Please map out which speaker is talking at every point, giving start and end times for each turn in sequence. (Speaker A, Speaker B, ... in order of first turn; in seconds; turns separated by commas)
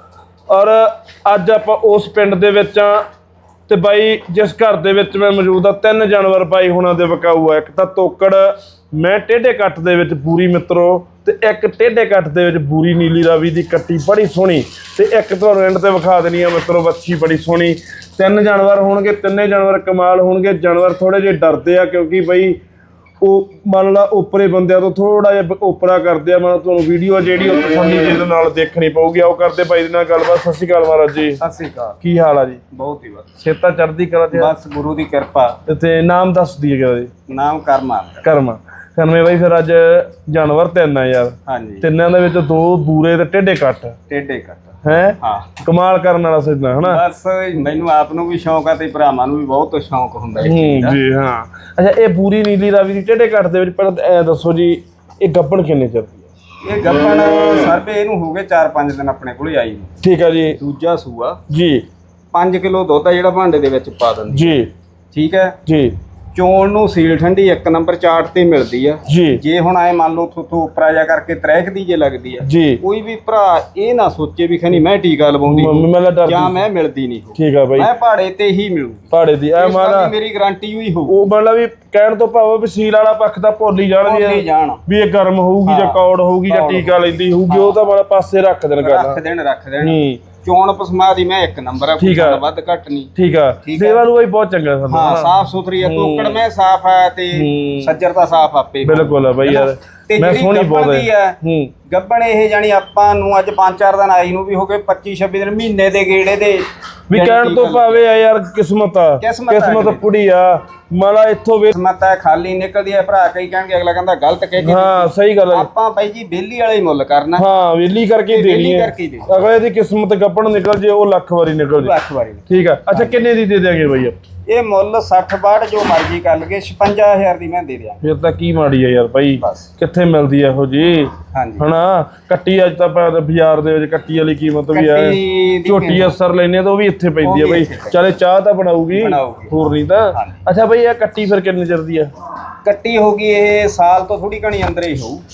Speaker A: 0.5-3.0, Speaker A: 3.7-22.6, Speaker A: 23.2-31.4, Speaker B: 31.4-32.0, Speaker A: 32.0-32.6, Speaker B: 32.7-33.3, Speaker A: 33.4-34.5, Speaker B: 34.3-35.6, Speaker A: 35.7-37.1, Speaker B: 37.3-38.2, Speaker A: 38.2-44.0, Speaker B: 41.5-41.8, Speaker B: 44.1-45.5, Speaker A: 44.8-47.0, Speaker B: 46.8-51.0, Speaker A: 50.4-56.2, Speaker B: 56.6-59.9, Speaker A: 60.0-60.6, Speaker B: 60.6-61.4, Speaker A: 61.5-61.8, Speaker B: 62.3-64.6, Speaker A: 64.3-64.7, Speaker B: 65.1-65.6, Speaker A: 65.7-65.9, Speaker B: 66.3-81.2, Speaker A: 69.1-69.4, Speaker A: 72.4-72.8, Speaker A: 75.5-76.6, Speaker A: 77.4-77.9, Speaker A: 79.1-80.1, Speaker A: 81.1-89.2, Speaker B: 84.0-84.8, Speaker B: 85.6-87.8, Speaker B: 88.8-93.1, Speaker A: 89.8-90.2, Speaker A: 92.0-92.4, Speaker A: 93.2-96.4, Speaker B: 93.6-94.0, Speaker B: 94.9-108.0, Speaker A: 97.3-98.0, Speaker A: 98.8-101.7, Speaker A: 107.1-111.7, Speaker B: 109.2-110.0, Speaker B: 111.7-117.5, Speaker A: 114.6-115.7, Speaker A: 117.4-121.9, Speaker B: 118.3-119.3, Speaker B: 121.8-123.2, Speaker A: 122.5-124.2, Speaker B: 124.5-128.0, Speaker A: 128.0-142.1, Speaker B: 129.4-129.7, Speaker B: 131.3-131.7, Speaker B: 134.7-136.2, Speaker B: 137.2-138.0, Speaker B: 138.9-139.5, Speaker B: 140.1-140.4, Speaker B: 142.6-145.2